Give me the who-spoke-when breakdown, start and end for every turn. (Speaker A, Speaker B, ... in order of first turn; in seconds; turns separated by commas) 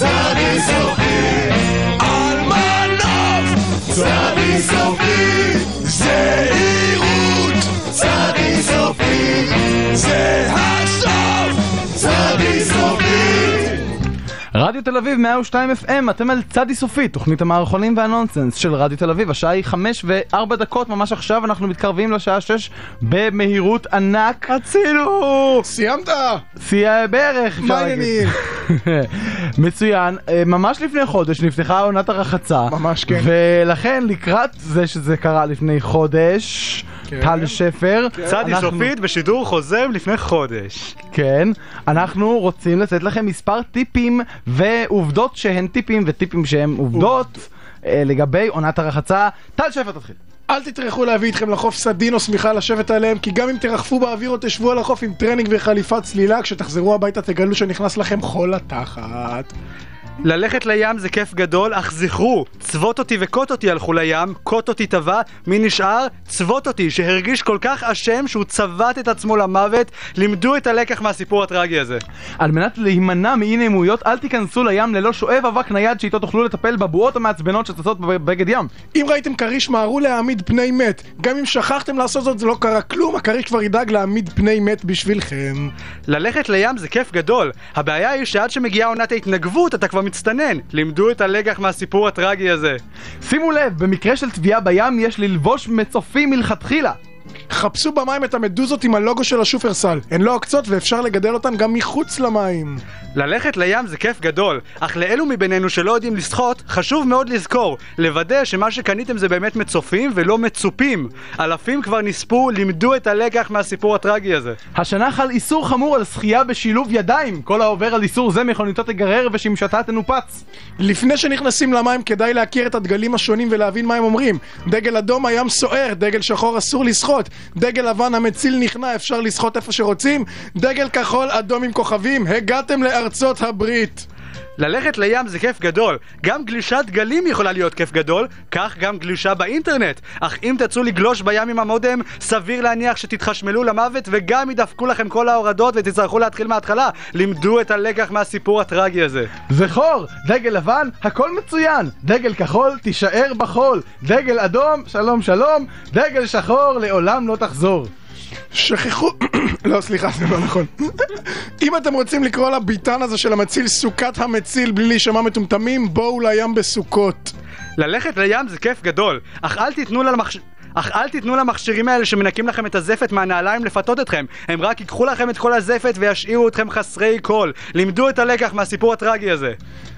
Speaker A: 14.6-24.6, Speaker B: 24.5-25.7, Speaker C: 25.6-26.4, Speaker A: 26.6-38.9, Speaker C: 27.6-28.4, Speaker C: 32.7-33.3, Speaker C: 37.1-37.6, Speaker B: 38.2-41.0, Speaker A: 41.1-50.2, Speaker C: 50.5-59.5, Speaker B: 60.2-72.0, Speaker A: 72.4-78.7, Speaker C: 78.9-85.7, Speaker B: 86.1-92.8, Speaker A: 93.2-97.0, Speaker C: 97.5-102.8, Speaker B: 103.2-114.6, Speaker A: 114.8-120.4, Speaker C: 120.8-134.1, Speaker B: 134.6-149.3, Speaker A: 149.5-157.9, Speaker C: 158.5-167.3, Speaker B: 167.8-179.6